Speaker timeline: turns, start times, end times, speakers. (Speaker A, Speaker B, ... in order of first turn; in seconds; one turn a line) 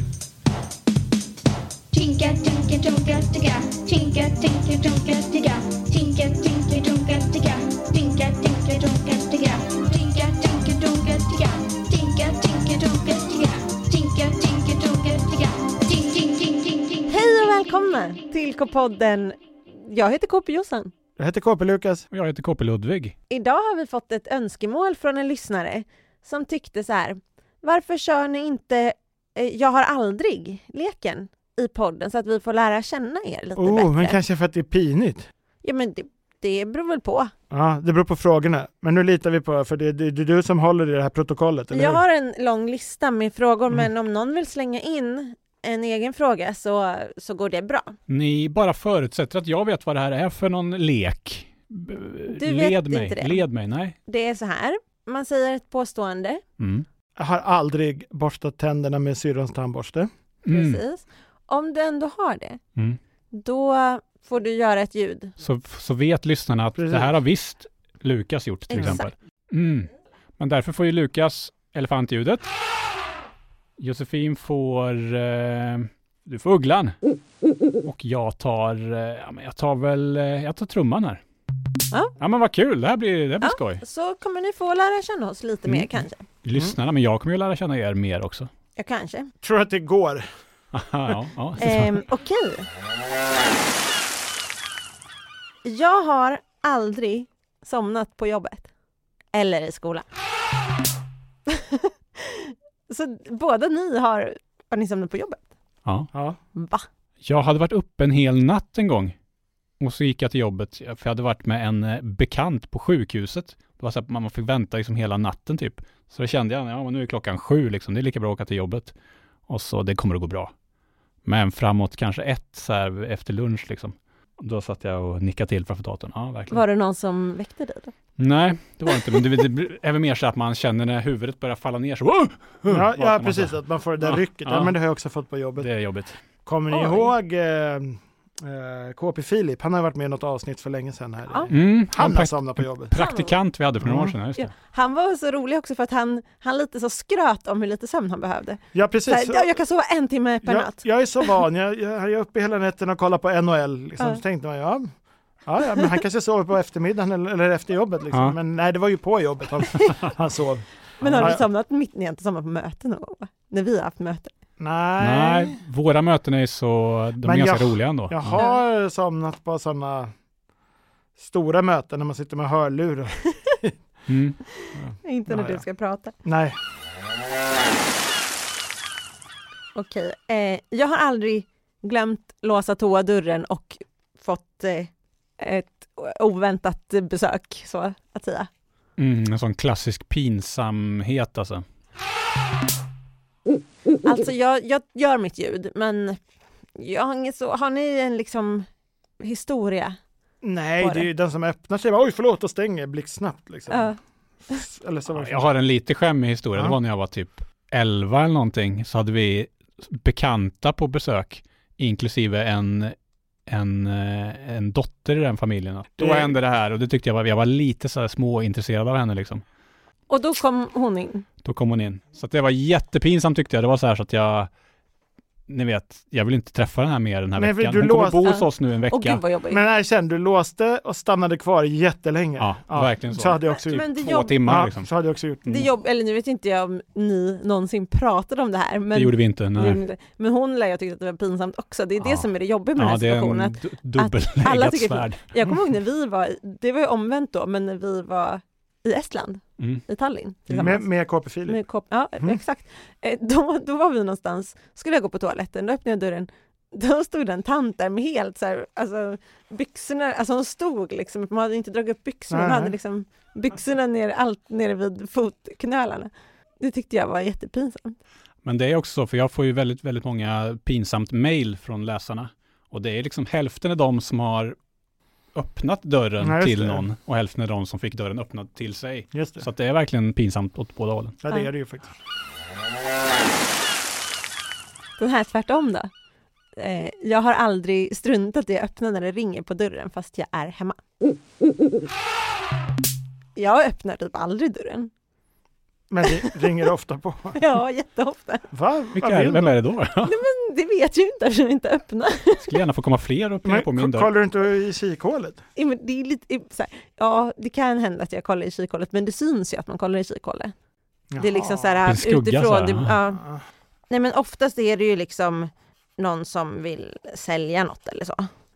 Speaker A: 1.9-17.1
Speaker B: 17.1-20.9
Speaker C: 21.2-22.1
Speaker D: 22.1-23.1
Speaker B: 23.3-34.2
Speaker C: 33.6-35.3
Speaker B: 35.6-37.3
Speaker C: 37.5-42.0
Speaker B: 41.7-48.0
Speaker D: 48.1-54.0
Speaker B: 52.3-53.4
Speaker B: 54.0-56.4
Speaker D: 56.6-56.9
Speaker C: 57.2-60.1
Speaker D: 60.5-60.8
Speaker B: 60.5-62.6
Speaker B: 63.3-65.4
Speaker D: 65.4-72.5
Speaker C: 66.8-67.2
Speaker B: 68.7-69.1
Speaker D: 73.8-76.9
Speaker D: 77.8-81.2
Speaker D: 82.2-83.8
Speaker B: 83.4-86.2
Speaker D: 86.4-88.5
Speaker B: 88.8-89.3
Speaker C: 89.4-90.2
Speaker D: 90.7-92.0
Speaker B: 91.6-92.7
Speaker B: 95.7-98.7
Speaker B: 99.3-100.1
Speaker B: 101.5-105.5
Speaker D: 105.8-106.1
Speaker C: 106.1-106.4
Speaker B: 106.5-106.9
Speaker D: 107.2-109.2
Speaker D: 109.8-118.9
Speaker D: 119.5-120.5
Speaker D: 121.2-126.6
Speaker B: 126.5-127.9
Speaker D: 128.2-134.8
Speaker C: 132.7-135.7
Speaker D: 135.6-136.2
Speaker C: 136.5-142.9
Speaker B: 136.7-137.1
Speaker D: 141.5-144.5
Speaker B: 142.9-143.4
Speaker C: 143.8-144.2
Speaker B: 144.4-151.3
Speaker C: 148.7-149.5
Speaker C: 150.4-154.9
Speaker C: 155.4-161.4
Speaker B: 155.7-156.0
Speaker D: 158.1-158.4
Speaker D: 161.0-161.4
Speaker B: 161.0-164.3
Speaker C: 164.6-165.6
Speaker D: 165.0-168.4
Speaker C: 167.2-170.1
Speaker C: 171.2-173.7
Speaker D: 174.1-174.4
Speaker B: 174.6-176.1
Speaker C: 174.7-175.7
Speaker C: 176.2-176.6
Speaker B: 179.8-188.5
Speaker D: 189.0-191.6
Speaker B: 194.0-196.2
Speaker B: 196.8-198.7
Speaker B: 199.2-200.0
Speaker C: 200.4-203.9
Speaker B: 200.8-201.1
Speaker B: 203.7-204.0
Speaker C: 204.5-205.5
Speaker D: 205.1-212.9
Speaker D: 213.5-219.4
Speaker C: 216.0-216.4
Speaker B: 220.1-221.3
Speaker D: 221.4-224.5
Speaker D: 225.5-229.2
Speaker C: 227.4-228.2
Speaker B: 228.2-229.6
Speaker C: 229.5-233.9
Speaker D: 232.4-234.9
Speaker B: 233.6-234.4
Speaker C: 234.4-235.6
Speaker B: 235.5-250.9
Speaker D: 238.9-239.8
Speaker D: 242.0-245.2
Speaker D: 249.6-249.8
Speaker D: 250.5-250.8
Speaker C: 250.6-251.6
Speaker B: 251.5-268.0
Speaker C: 262.3-262.8
Speaker D: 268.4-274.6
Speaker D: 275.4-281.2
Speaker C: 276.2-276.9
Speaker C: 279.1-279.5
Speaker C: 281.2-281.9
Speaker B: 285.0-285.9
Speaker B: 286.6-290.8
Speaker B: 293.4-294.9
Speaker C: 295.9-297.4
Speaker B: 296.1-296.3
Speaker B: 297.4-298.5
Speaker C: 298.5-299.6
Speaker D: 298.9-300.1
Speaker B: 300.1-302.6
Speaker D: 302.4-304.1
Speaker C: 303.4-305.4
Speaker B: 305.6-310.5
Speaker C: 311.1-311.8
Speaker B: 311.2-313.2
Speaker D: 311.9-312.9
Speaker C: 313.1-313.4
Speaker B: 313.9-318.3